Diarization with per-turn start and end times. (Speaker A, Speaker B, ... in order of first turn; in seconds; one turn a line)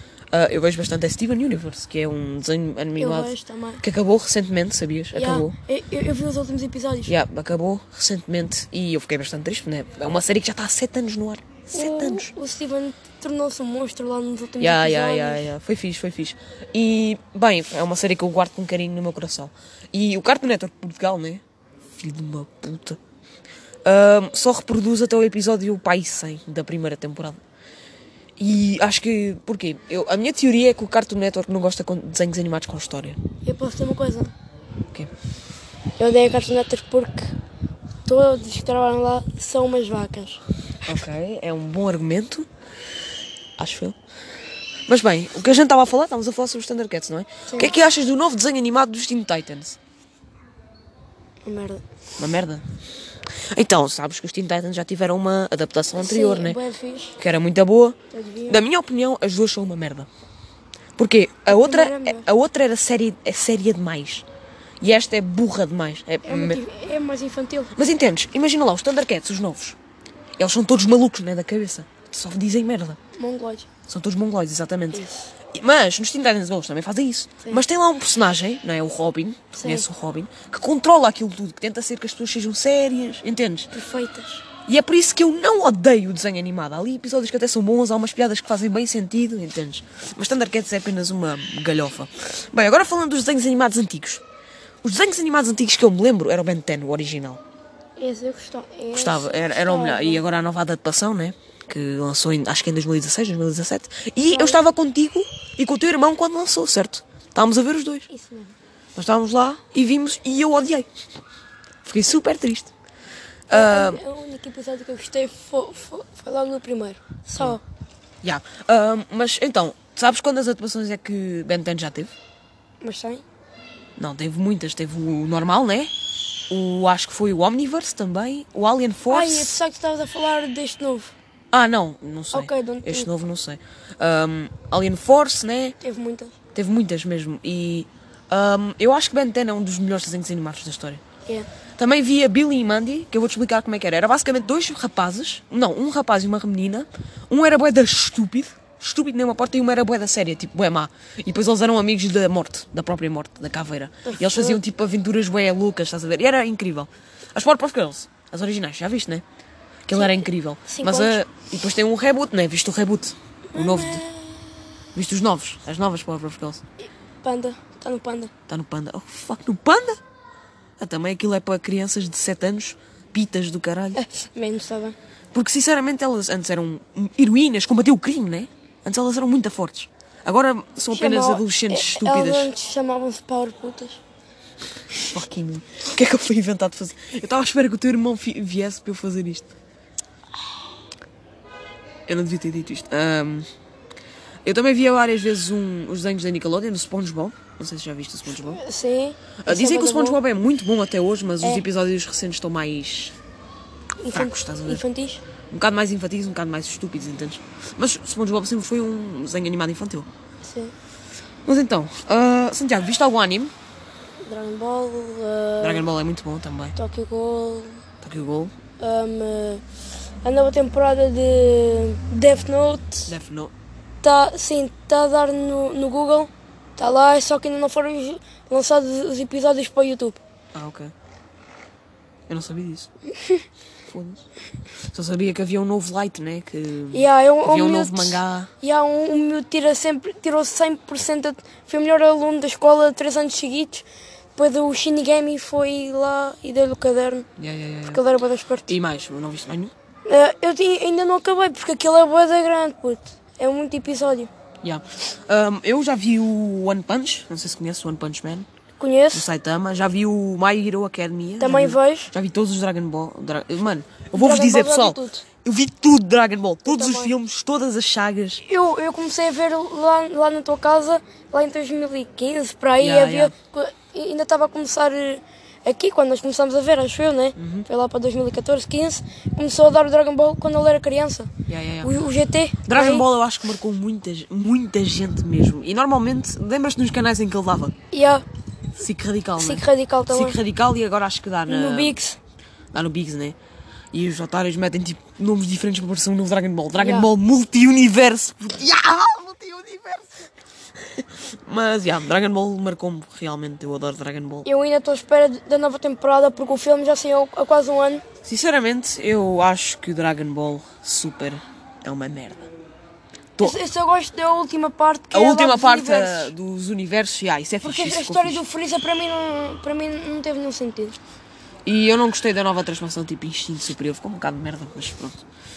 Speaker A: 0.3-5.5
Speaker B: 3.0-3.8
Speaker B: 5.2-7.1
Speaker A: 7.1-12.3
Speaker B: 11.7-15.5
Speaker A: 14.6-21.4
Speaker A: 22.0-23.0
Speaker A: 23.9-27.4
Speaker A: 28.4-33.2
Speaker B: 33.4-34.3
Speaker B: 36.0-37.4
Speaker B: 38.0-40.4
Speaker A: 40.9-42.5
Speaker A: 43.6-44.0
Speaker A: 44.9-49.8
Speaker B: 51.4-51.8
Speaker A: 52.2-52.6
Speaker A: 53.5-56.6
Speaker B: 56.0-57.2
Speaker A: 57.2-58.0
Speaker B: 58.1-58.6
Speaker A: 58.5-60.1
Speaker A: 61.0-64.2
Speaker B: 61.5-62.3
Speaker A: 64.8-66.6
Speaker B: 66.2-67.8
Speaker A: 67.8-69.8
Speaker A: 70.4-73.0
Speaker B: 73.2-73.7
Speaker A: 73.9-83.7
Speaker B: 74.9-75.2
Speaker B: 79.6-79.9
Speaker B: 83.7-84.4
Speaker A: 84.7-94.2
Speaker A: 94.8-97.4
Speaker B: 98.0-100.2
Speaker A: 98.9-108.1
Speaker B: 104.3-104.6
Speaker B: 108.1-108.5
Speaker A: 109.0-110.9
Speaker A: 111.8-112.7
Speaker A: 113.5-114.0
Speaker B: 113.5-117.6
Speaker A: 118.2-122.1
Speaker B: 122.8-123.2
Speaker A: 124.0-125.9
Speaker A: 126.5-129.6
Speaker B: 129.1-131.1
Speaker A: 131.5-135.8
Speaker B: 132.3-133.1
Speaker B: 135.8-136.3
Speaker A: 136.6-141.0
Speaker A: 141.8-159.2
Speaker B: 154.1-154.6
Speaker A: 159.9-164.1
Speaker B: 159.9-161.2
Speaker B: 163.5-164.5
Speaker A: 164.9-166.6
Speaker B: 167.2-168.3
Speaker A: 168.5-170.0
Speaker A: 170.8-174.0
Speaker B: 173.9-175.0
Speaker A: 175.3-182.5
Speaker B: 180.9-184.0
Speaker A: 185.1-189.5
Speaker A: 192.1-193.5
Speaker A: 194.4-198.6
Speaker B: 198.3-200.2
Speaker A: 199.4-203.2
Speaker B: 204.0-205.2
Speaker A: 204.1-204.8
Speaker A: 205.5-210.1
Speaker B: 210.4-210.7
Speaker A: 211.5-213.5
Speaker B: 214.2-215.8
Speaker A: 215.6-216.8
Speaker B: 216.8-217.8
Speaker A: 218.0-218.5
Speaker B: 218.8-219.6
Speaker B: 220.2-223.1
Speaker A: 223.1-223.5
Speaker B: 224.0-230.2
Speaker A: 230.5-230.9
Speaker A: 232.3-232.9
Speaker A: 233.9-234.2
Speaker A: 234.9-238.5
Speaker B: 236.9-247.3
Speaker A: 247.4-248.0
Speaker B: 247.9-248.7
Speaker A: 248.7-249.7
Speaker B: 250.1-254.3
Speaker A: 254.6-258.5
Speaker B: 258.8-259.3
Speaker A: 259.1-268.4
Speaker B: 261.4-262.1
Speaker B: 264.1-265.2
Speaker B: 266.7-267.1
Speaker B: 268.4-281.3
Speaker A: 272.8-273.3
Speaker A: 277.4-277.7
Speaker A: 281.5-281.9
Speaker B: 281.8-283.1
Speaker A: 282.7-287.7
Speaker B: 287.9-288.2
Speaker A: 288.8-292.0
Speaker B: 289.4-290.4
Speaker B: 291.5-292.2
Speaker A: 292.7-293.4
Speaker A: 293.9-300.1
Speaker B: 296.8-297.1
Speaker A: 300.9-304.5
Speaker B: 304.4-308.0
Speaker A: 308.2-312.5
Speaker B: 313.4-316.3
Speaker A: 315.1-318.4
Speaker B: 317.6-321.0
Speaker A: 321.6-325.2